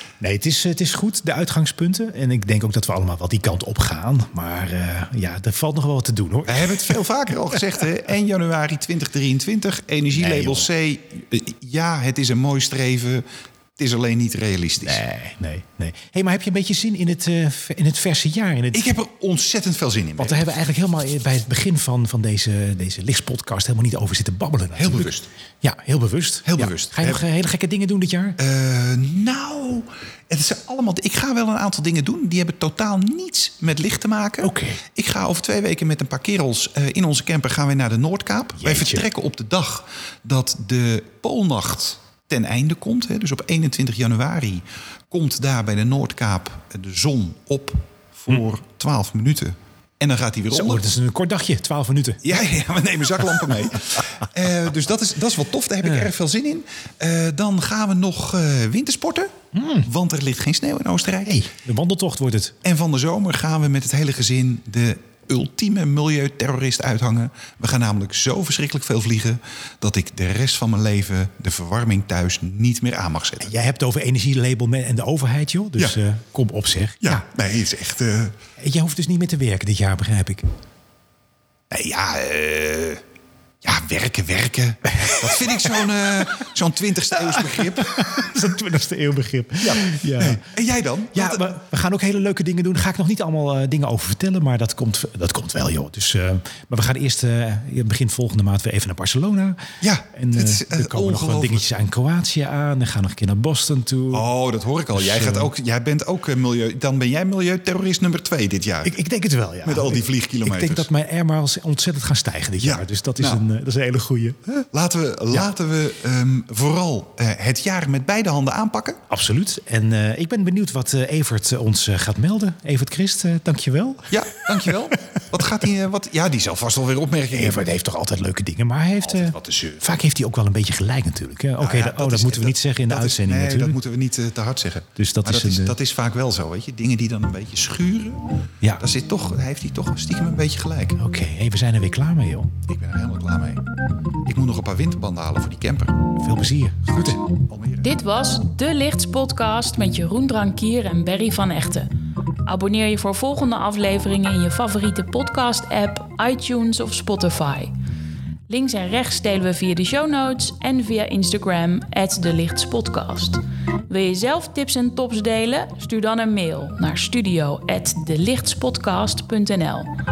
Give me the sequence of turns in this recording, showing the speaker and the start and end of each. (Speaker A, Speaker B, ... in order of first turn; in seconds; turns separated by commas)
Speaker A: 0.2-7.0, Speaker B: 6.4-13.2, Speaker A: 10.1-10.7, Speaker B: 13.8-15.0, Speaker A: 14.8-18.9, Speaker B: 18.7-20.5, Speaker A: 20.2-25.1, Speaker B: 24.8-25.3, Speaker A: 25.6-28.4, Speaker B: 26.4-27.2, Speaker B: 28.4-50.8, Speaker A: 34.4-34.8, Speaker A: 38.6-39.0, Speaker A: 50.5-52.4, Speaker B: 52.2-61.4, Speaker A: 59.5-59.9, Speaker A: 61.2-62.5, Speaker B: 62.6-73.5, Speaker A: 73.4-77.2, Speaker B: 77.0-78.4, Speaker A: 78.6-80.5, Speaker B: 81.7-83.0, Speaker B: 83.6-88.3, Speaker A: 84.9-85.5, Speaker A: 87.3-90.4, Speaker B: 89.6-91.4, Speaker A: 91.1-104.2, Speaker B: 99.8-101.7, Speaker B: 104.1-108.9, Speaker A: 104.9-105.5, Speaker A: 108.8-114.4, Speaker B: 109.6-110.9, Speaker B: 112.6-113.4, Speaker B: 114.5-119.0, Speaker A: 119.1-124.7, Speaker B: 124.1-127.7, Speaker A: 127.3-133.8, Speaker B: 129.0-129.8, Speaker B: 131.6-138.2, Speaker A: 134.9-135.7, Speaker B: 138.8-141.0, Speaker A: 141.0-142.6, Speaker B: 142.7-143.7, Speaker B: 144.2-146.1, Speaker A: 146.2-147.2, Speaker B: 146.9-147.9, Speaker C: 147.8-151.9, Speaker C: 152.4-157.7, Speaker C: 158.5-169.9